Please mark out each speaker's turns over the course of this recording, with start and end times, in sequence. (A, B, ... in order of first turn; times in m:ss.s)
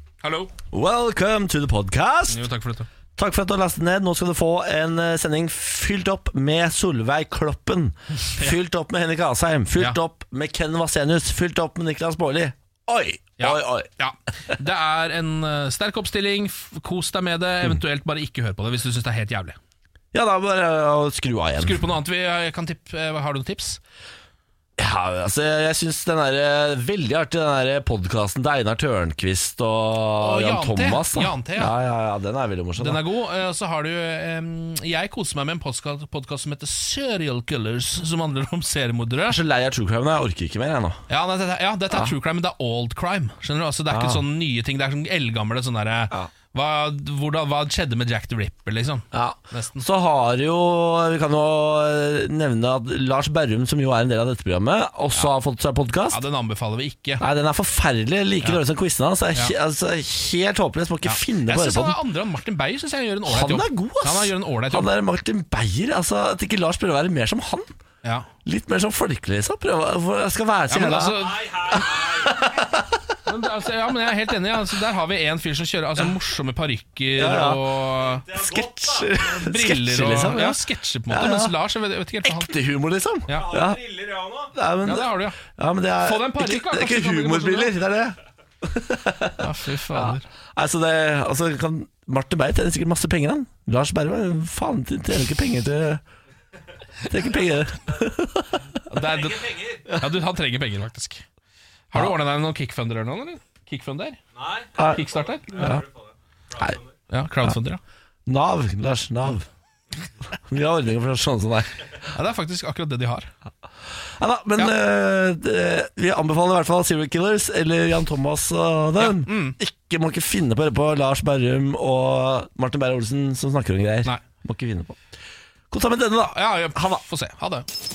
0:00.2-0:00.5 A
0:00.7-0:02.4 B
0:02.3-0:02.9 A
0:03.2-0:13.9 B
0:13.4-0:19.6 A
0:20.1-0:21.8 B
0:21.6-0:23.8 A
0:24.8-0:33.0 B
0:30.2-0:31.7 A
0:32.8-0:39.4 A
0:39.3-0:41.0 B
0:41.1-0:49.8 A
0:43.9-0:44.2 B
0:49.1-0:56.2 B
0:56.1-0:57.2 A
0:57.2-1:02.0 B
1:01.0-1:04.9 A
1:03.3-1:07.7 B
1:08.0-1:08.3 A
1:08.4-1:13.0 B
1:10.7-1:12.3 A
1:13.3-1:22.5 A
1:17.2-1:17.6 B
1:18.3-1:21.6 B
1:22.2-1:23.9 B
1:23.3-1:25.4 A
1:24.5-1:36.0 B
1:26.0-1:27.8 A
1:29.4-1:30.2 A
1:37.1-1:38.8 B
1:38.9-1:41.3 A
1:41.9-1:45.9 A
1:44.8-1:45.8 B
1:47.1-1:47.8 A
1:48.3-1:49.5 B
1:50.5-1:51.7 B
1:52.1-1:53.3 A
1:54.2-2:05.0 B
1:59.0-1:59.6 A
2:05.7-2:07.0 B
2:06.3-2:07.7 A